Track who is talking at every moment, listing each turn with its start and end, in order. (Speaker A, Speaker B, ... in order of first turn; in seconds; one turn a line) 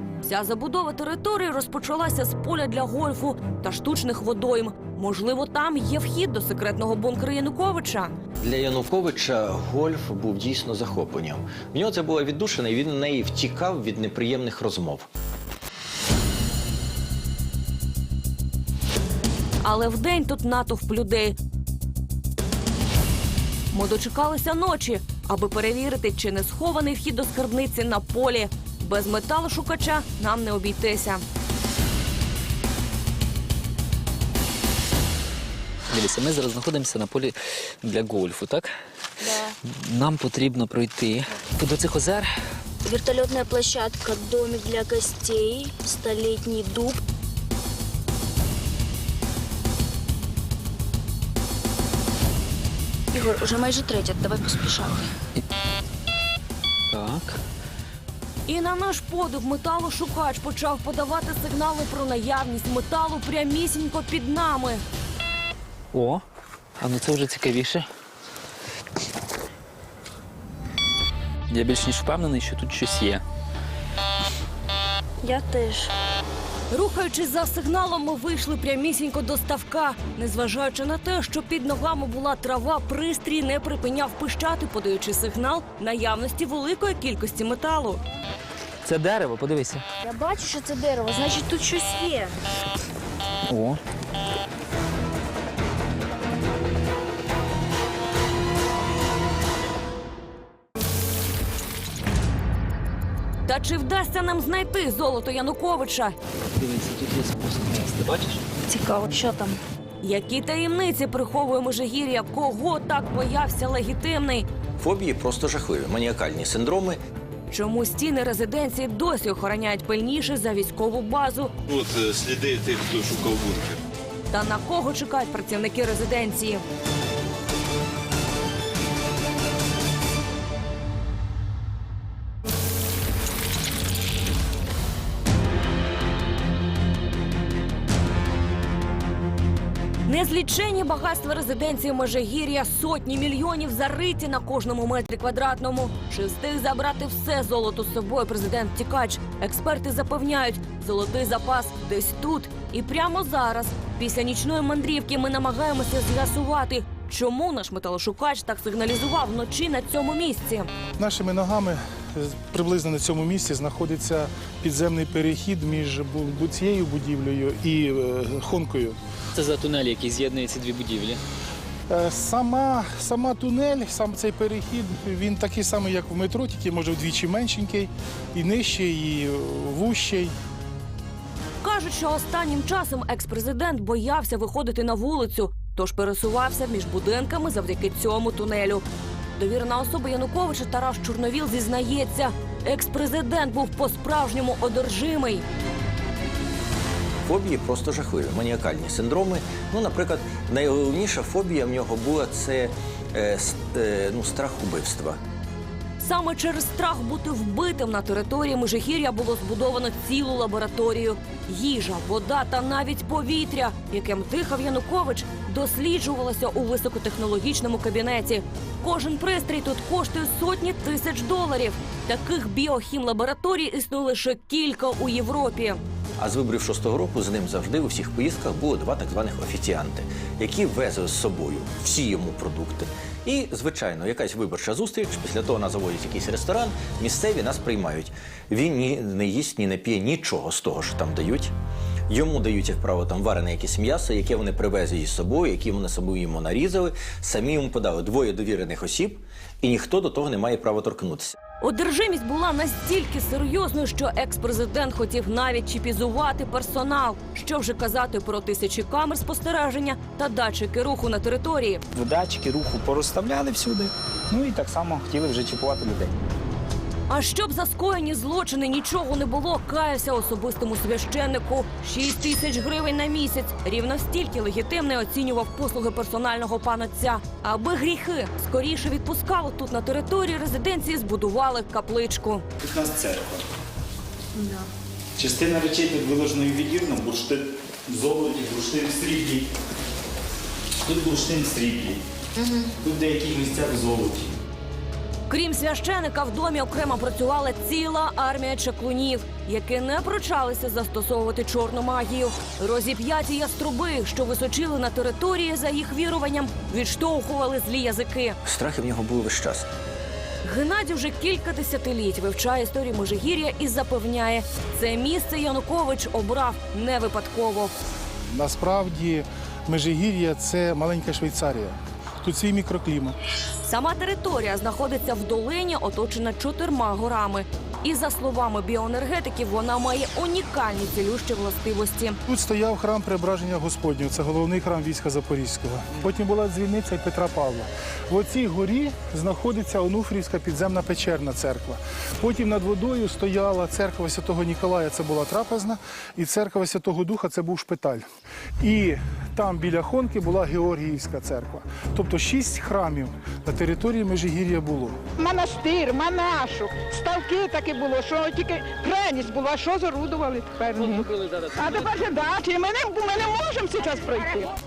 Speaker A: 0.2-8.1
Speaker B: 8.4-15.1
Speaker A: 19.6-21.4
Speaker A: 23.7-31.2
Speaker C: 35.9-38.7
Speaker D: 39.2-39.5
Speaker C: 39.6-42.3
Speaker D: 42.8-47.0
Speaker D: 53.1-55.1
Speaker C: 56.9-57.3
Speaker A: 58.5-64.8
Speaker C: 65.9-66.2
Speaker C: 66.8-67.8
Speaker C: 71.5-73.2
Speaker D: 75.2-75.9
Speaker A: 76.7-88.0
Speaker C: 88.8-89.8
Speaker D: 90.0-92.3
Speaker C: 93.5-93.8
Speaker A: 103.5-106.2
Speaker C: 106.6-108.4
Speaker D: 108.7-109.6
Speaker A: 110.0-114.5
Speaker B: 114.8-117.0
Speaker A: 117.5-121.5
Speaker E: 121.7-123.8
Speaker A: 124.3-126.6
Speaker A: 140.1-160.7
Speaker F: 161.0-168.9
Speaker C: 169.3-171.2
Speaker F: 171.9-180.3
Speaker A: 181.6-188.8
Speaker A: 189.4-195.4
Speaker B: 197.2-205.2
Speaker A: 206.0-225.8
Speaker B: 226.2-241.5
Speaker B: 242.1-251.3
Speaker A: 251.6-261.8
Speaker G: 261.9-266.1
Speaker A: 267.1-282.4
Speaker G: 282.6-283.4
Speaker G: 285.2-289.5
Speaker G: 290.8-292.0
Speaker D: 292.4-292.7
Speaker G: 292.8-294.3
Speaker A: 295.3-308.4
Speaker B: 308.4-309.6
Speaker A: 310.4-317.7
Speaker F: 318.3-321.7
Speaker F: 322.2-323.1
Speaker A: 323.6-332.2
Speaker F: 332.3-348.0
Speaker F: 348.6-355.0
Speaker H: 355.2-364.5